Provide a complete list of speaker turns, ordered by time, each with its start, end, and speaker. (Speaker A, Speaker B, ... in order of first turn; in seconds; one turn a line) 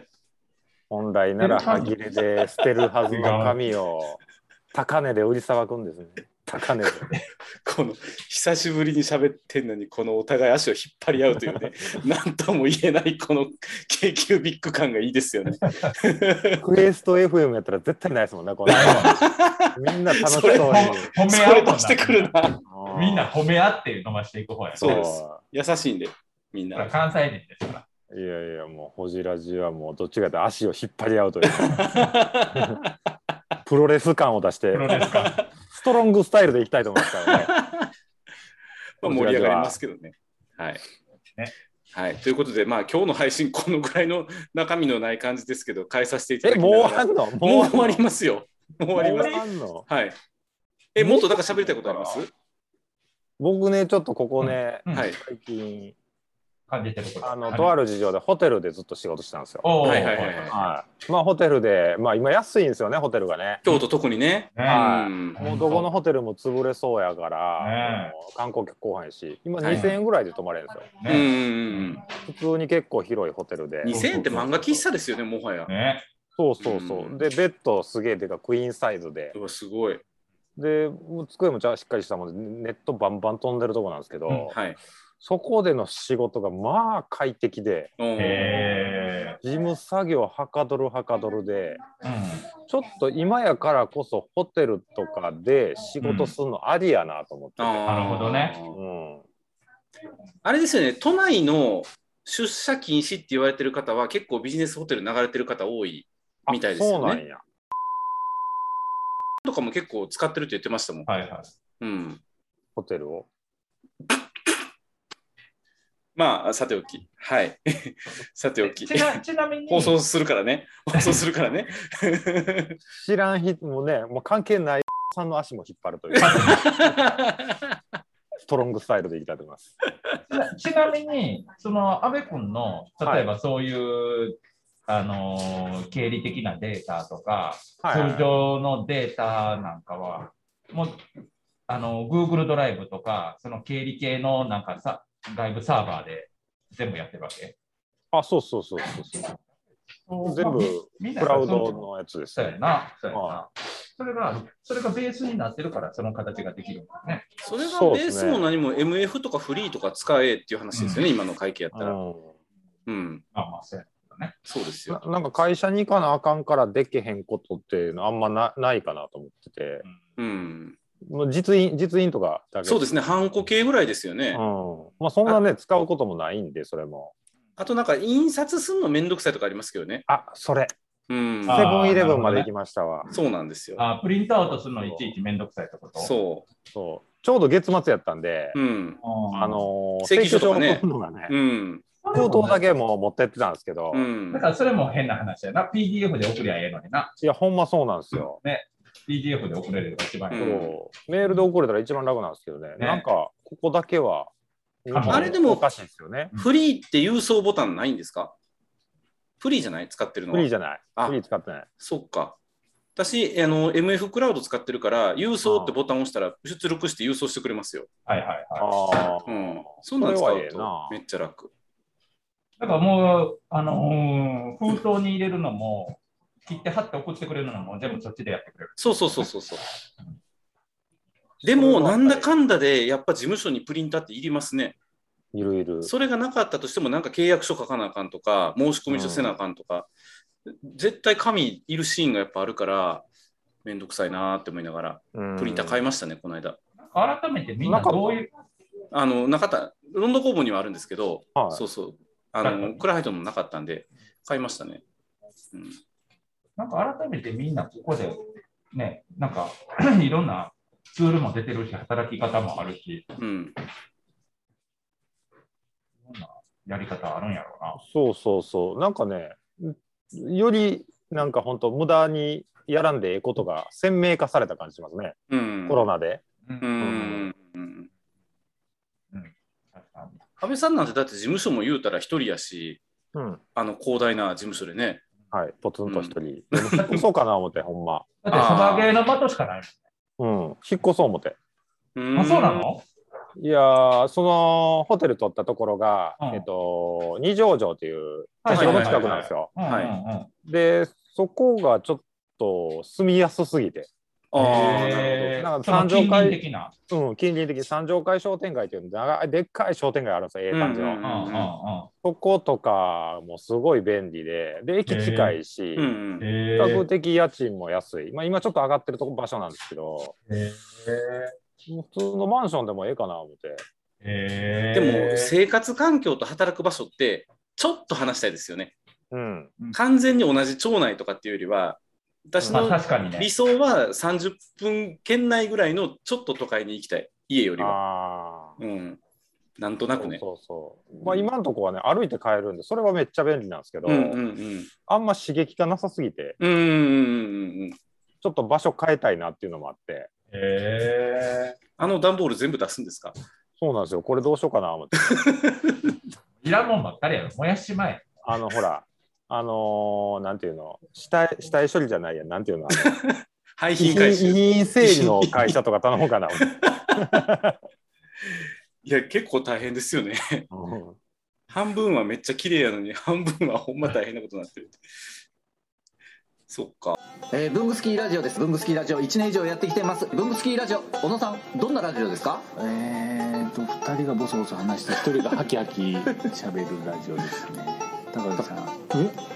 Speaker A: 0.9-4.2
Speaker B: 1.4-1.9
Speaker B: 3.1-3.6
Speaker A: 4.7-7.1
Speaker C: 7.6-16.6
Speaker B: 15.7-15.9
Speaker A: 16.6-19.2
Speaker B: 18.6-19.2
Speaker C: 18.7-22.6
Speaker A: 19.7-21.1
Speaker B: 20.4-22.3
Speaker A: 22.6-23.3
Speaker B: 22.9-25.0
Speaker A: 24.8-25.4
Speaker C: 24.8-26.9
Speaker B: 26.7-27.8
Speaker A: 28.1-31.9
Speaker C: 31.4-32.8
Speaker A: 32.5-32.8
Speaker A: 33.6-35.0
Speaker B: 34.7-35.4
Speaker C: 35.0-35.5
Speaker A: 35.7-37.5
Speaker C: 37.0-37.9
Speaker C: 39.0-40.8
Speaker A: 39.0-39.8
Speaker C: 41.9-50.2
Speaker A: 46.4-48.0
Speaker A: 48.9-49.9
Speaker B: 49.0-49.4
Speaker C: 50.9-52.3
Speaker A: 51.0-52.2
Speaker A: 53.4-55.9
Speaker B: 54.4-55.1
Speaker C: 54.9-55.2
Speaker B: 56.7-57.7
Speaker A: 57.2-59.7
Speaker B: 59.6-60.5
Speaker C: 59.8-60.5
Speaker A: 60.5-63.6
Speaker C: 63.6-65.4
Speaker B: 64.5-65.9
Speaker A: 64.7-71.0
Speaker B: 67.6-68.1
Speaker B: 69.6-70.0
Speaker B: 71.0-72.0
Speaker C: 71.0-72.0
Speaker A: 72.1-74.0
Speaker B: 73.8-74.8
Speaker C: 73.8-75.7
Speaker B: 75.7-76.0
Speaker A: 76.4-79.3
Speaker C: 76.6-77.2
Speaker C: 79.3-80.0
Speaker A: 80.6-84.5
Speaker C: 84.5-84.8
Speaker A: 85.2-87.9
Speaker C: 88.0-88.8
Speaker B: 88.2-89.4
Speaker A: 89.4-91.8
Speaker B: 92.0-92.5
Speaker A: 92.7-97.8
Speaker B: 96.0-96.3
Speaker C: 97.6-98.8
Speaker B: 97.8-98.5
Speaker A: 98.7-99.2
Speaker C: 100.4-107.2
Speaker A: 106.5-107.4
Speaker C: 109.4-111.1
Speaker B: 111.1-111.5
Speaker C: 111.8-112.2
Speaker A: 112.8-113.3
Speaker C: 116.2-122.8
Speaker B: 118.6-119.9
Speaker A: 122.9-127.0
Speaker C: 126.1-127.8
Speaker B: 126.2-126.7
Speaker A: 128.5-129.7
Speaker B: 130.3-141.0
Speaker A: 137.8-138.3
Speaker B: 141.7-147.5
Speaker A: 148.1-149.3
Speaker B: 150.1-157.3
Speaker A: 150.2-152.6
Speaker A: 153.1-153.4
Speaker C: 157.4-162.0
Speaker A: 157.6-158.4
Speaker B: 160.7-161.0
Speaker A: 161.7-162.3
Speaker C: 162.8-163.2
Speaker B: 163.3-164.3
Speaker C: 164.4-165.0
Speaker A: 164.9-169.8
Speaker C: 170.2-170.8
Speaker A: 171.1-172.8
Speaker C: 172.6-174.4
Speaker A: 174.3-177.1
Speaker C: 177.6-180.0
Speaker A: 180.1-180.7
Speaker C: 181.1-181.8
Speaker B: 181.5-182.5
Speaker A: 181.5-183.1
Speaker C: 183.1-183.8
Speaker B: 183.8-186.1
Speaker A: 184.8-185.1
Speaker C: 186.0-186.4
Speaker A: 186.7-188.6
Speaker C: 188.5-189.0
Speaker B: 189.0-189.7
Speaker A: 189.3-191.3
Speaker C: 190.0-191.8
Speaker B: 192.0-192.7
Speaker A: 192.1-194.1
Speaker C: 193.9-194.4
Speaker B: 194.3-197.1
Speaker A: 197.2-198.4
Speaker B: 198.2-200.5
Speaker C: 200.3-200.8
Speaker A: 200.3-204.3
Speaker B: 202.8-203.1
Speaker A: 204.8-206.3
Speaker B: 204.9-205.3
Speaker C: 205.1-205.6
Speaker C: 206.3-208.3
Speaker C: 209.4-211.2
Speaker A: 210.3-211.7
Speaker C: 211.8-212.4
Speaker C: 212.9-217.9
Speaker A: 215.4-215.8
Speaker B: 218.1-218.7
Speaker A: 218.6-221.0
Speaker C: 219.3-221.5
Speaker B: 222.6-229.2
Speaker C: 228.8-229.6
Speaker A: 231.4-232.3
Speaker C: 231.4-234.8
Speaker A: 235.3-235.9
Speaker C: 235.8-239.9
Speaker A: 238.9-239.3
Speaker C: 240.4-243.1
Speaker C: 243.6-246.6
Speaker A: 245.1-245.8
Speaker B: 246.8-248.3
Speaker A: 247.6-248.2
Speaker C: 248.9-254.8
Speaker A: 251.3-251.6
Speaker B: 252.4-252.8
Speaker C: 255.5-255.8
Speaker B: 256.6-258.2
Speaker B: 258.7-263.1
Speaker C: 263.2-263.5
Speaker B: 266.0-267.8
Speaker A: 267.8-276.2
Speaker C: 275.3-275.9
Speaker C: 276.6-277.9
Speaker A: 276.8-277.3
Speaker B: 279.1-280.2
Speaker C: 280.4-282.8
Speaker A: 283.1-283.4
Speaker C: 283.6-285.0
Speaker A: 285.3-288.1
Speaker C: 285.9-287.0
Speaker B: 288.2-289.8
Speaker C: 288.3-288.9
Speaker A: 290.2-291.4
Speaker C: 291.9-292.7
Speaker B: 292.1-292.8
Speaker A: 293.4-299.5
Speaker B: 296.2-296.4
Speaker B: 298.4-300.3
Speaker C: 298.5-299.9
Speaker A: 300.4-303.9
Speaker C: 304.3-305.3
Speaker B: 304.4-306.7
Speaker A: 304.4-306.4
Speaker A: 306.9-311.0
Speaker C: 310.5-311.5
Speaker B: 311.0-311.9
Speaker A: 312.0-315.9
Speaker B: 314.9-315.4
Speaker C: 315.8-316.2
Speaker B: 316.2-316.9
Speaker A: 316.6-320.1
Speaker B: 320.3-321.3
Speaker A: 321.6-323.6
Speaker B: 324.0-325.3
Speaker C: 324.7-328.7
Speaker A: 329.1-329.5
Speaker C: 329.7-337.8
Speaker A: 332.4-332.7
Speaker B: 332.5-333.3
Speaker A: 337.6-338.6
Speaker C: 338.6-339.0
Speaker C: 339.6-340.2
Speaker A: 340.0-344.2
Speaker C: 343.9-344.7
Speaker A: 344.9-346.4
Speaker C: 346.4-347.8
Speaker A: 348.2-350.1
Speaker B: 350.3-351.6
Speaker C: 351.8-353.1
Speaker A: 353.6-355.2
Speaker C: 355.0-355.9
Speaker B: 356.4-358.1
Speaker A: 358.2-362.9
Speaker C: 362.7-365.6
Speaker A: 363.8-367.6
Speaker C: 366.4-367.2
Speaker C: 368.2-370.5
Speaker A: 370.5-371.0
Speaker C: 371.5-374.8
Speaker C: 376.5-377.0
Speaker D: 377.3-382.4
Speaker E: 382.5-389.2